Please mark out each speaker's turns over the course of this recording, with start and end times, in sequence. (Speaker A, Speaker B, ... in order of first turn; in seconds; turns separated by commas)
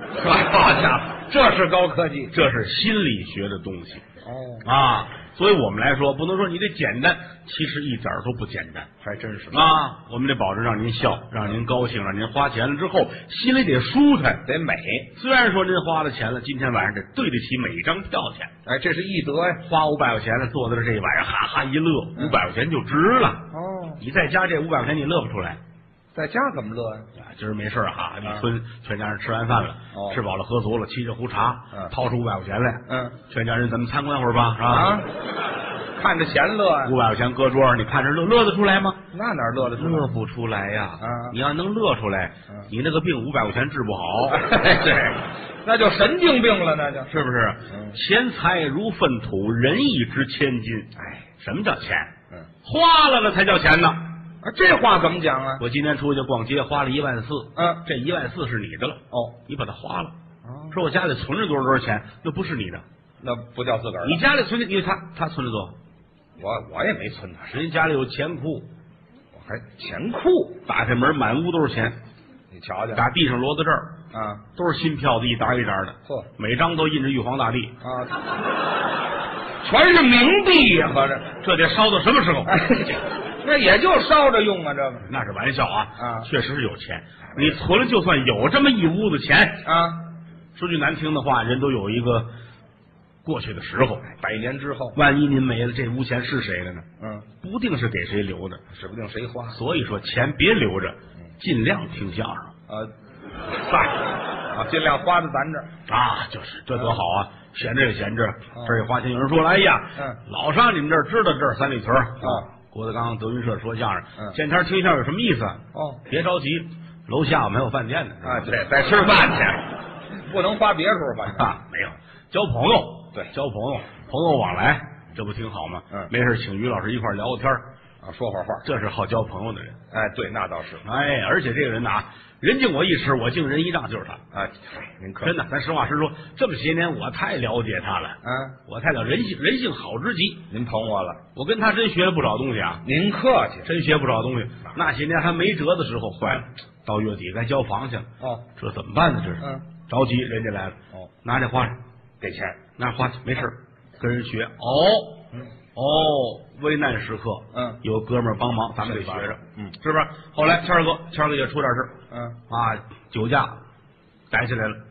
Speaker A: 0.2-2.4, Speaker B: 2.3-4.0, Speaker A: 4.2-4.7, Speaker B: 4.6-8.9, Speaker A: 9.0-9.7, Speaker B: 9.5-14.4, Speaker A: 14.4-15.1, Speaker B: 15.2-18.5, Speaker A: 18.7-19.6, Speaker B: 19.6-23.5, Speaker A: 23.5-24.0, Speaker B: 24.0-25.6, Speaker A: 26.1-27.1, Speaker B: 27.2-35.0, Speaker A: 28.2-28.5, Speaker A: 29.9-30.2, Speaker A: 32.9-33.2, Speaker A: 34.7-35.1, Speaker A: 36.0-37.0, Speaker B: 36.9-39.0, Speaker A: 39.1-40.1, Speaker B: 39.8-44.4, Speaker A: 41.0-41.4, Speaker A: 44.3-47.1, Speaker B: 47.1-52.1, Speaker A: 47.7-48.0, Speaker A: 51.0-51.2, Speaker B: 52.6-54.0, Speaker A: 54.4-55.6, Speaker B: 55.6-60.1, Speaker A: 57.6-57.8, Speaker A: 59.1-59.4, Speaker A: 60.4-60.8, Speaker B: 60.7-62.8, Speaker A: 63.2-64.2, Speaker B: 64.0-65.8, Speaker A: 66.4-67.6, Speaker B: 67.5-68.7, Speaker A: 69.3-70.6, Speaker B: 70.7-72.0, Speaker A: 72.5-73.0, Speaker B: 73.0-74.0, Speaker A: 74.1-74.5, Speaker B: 74.5-77.8, Speaker A: 77.8-78.2, Speaker A: 79.6-81.3, Speaker B: 81.4-83.0, Speaker A: 82.5-85.1, Speaker B: 85.0-89.7, Speaker A: 86.0-86.3, Speaker A: 87.3-87.6, Speaker A: 89.6-90.1, Speaker B: 90.5-92.3, Speaker B: 93.2-94.1, Speaker A: 94.1-95.0, Speaker B: 95.0-96.9, Speaker A: 97.0-97.3, Speaker B: 97.4-98.6, Speaker A: 98.7-99.6, Speaker B: 99.5-102.5, Speaker A: 103.5-105.7, Speaker B: 105.9-118.5, Speaker A: 108.5-108.8, Speaker A: 110.0-110.2, Speaker A: 112.2-112.5, Speaker A: 115.7-116.0, Speaker A: 118.2-121.6, Speaker B: 121.3-127.7, Speaker A: 128.0-128.7, Speaker B: 128.6-129.8, Speaker A: 129.9-130.9, Speaker B: 130.8-134.2, Speaker A: 134.3-135.3, Speaker B: 135.2-140.4, Speaker A: 138.2-138.6, Speaker A: 140.5-141.2, Speaker B: 141.3-142.8, Speaker A: 142.8-143.7, Speaker B: 143.7-151.8, Speaker A: 148.2-148.5, Speaker A: 149.4-149.7, Speaker A: 152.2-152.6, Speaker B: 152.8-155.2, Speaker B: 155.8-161.9, Speaker A: 157.5-157.8, Speaker A: 158.8-159.8, Speaker A: 162.1-162.4, Speaker B: 162.5-163.6, Speaker B: 164.3-164.8